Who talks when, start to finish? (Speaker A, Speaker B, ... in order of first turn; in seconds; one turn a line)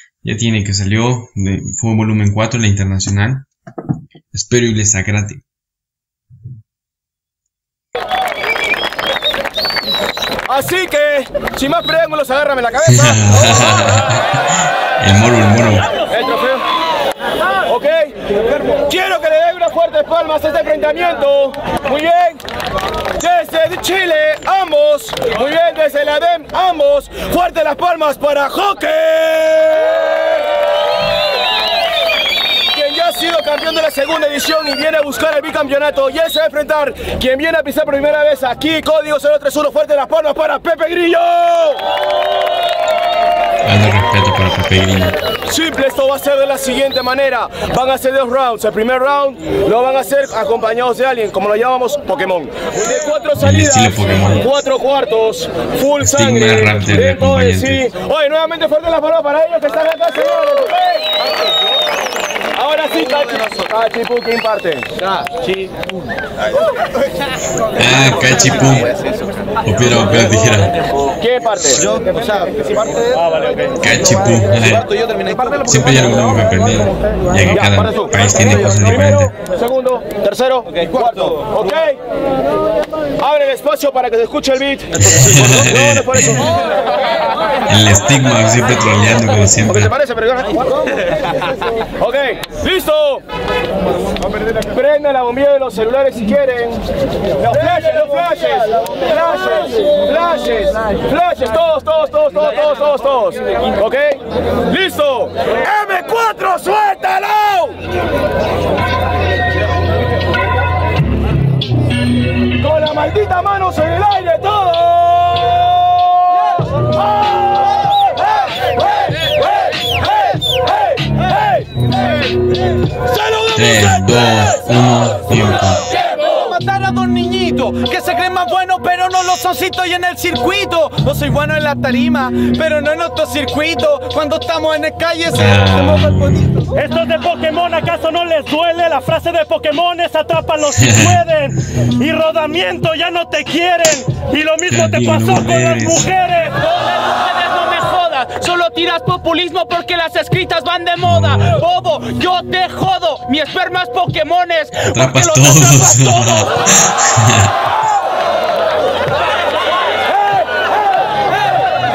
Speaker A: 0.2-3.5
Speaker A: 4.3-5.4
Speaker B: 10.5-13.2
Speaker A: 12.8-15.9
Speaker B: 16.1-16.6
Speaker B: 17.6-22.4
Speaker B: 23.2-30.6
Speaker B: 32.7-41.8
Speaker A: 43.6-45.2
Speaker B: 45.4-61.2
Speaker A: 53.4-54.5
Speaker A: 56.0-57.9
Speaker B: 62.5-64.9
Speaker A: 67.8-68.9
Speaker C: 68.6-68.9
Speaker A: 69.6-70.7
Speaker B: 71.1-71.8
Speaker C: 71.8-73.1
Speaker A: 73.8-74.9
Speaker C: 74.6-75.8
Speaker A: 75.7-79.3
Speaker B: 77.5-82.0
Speaker C: 80.7-81.6
Speaker B: 83.2-86.6
Speaker A: 85.0-86.5
Speaker A: 87.7-89.9
Speaker B: 89.7-90.8
Speaker B: 92.0-93.2
Speaker B: 94.5-96.8
Speaker B: 97.4-107.8
Speaker B: 112.6-116.8
Speaker B: 118.4-121.8
Speaker B: 123.1-124.0
Speaker A: 123.5-125.8
Speaker C: 125.9-136.4
Speaker A: 135.3-136.5
Speaker D: 136.7-146.6
Speaker A: 140.8-141.2
Speaker A: 144.6-146.1
Speaker E: 146.6-156.5
Speaker A: 151.0-151.5
Speaker A: 154.9-157.5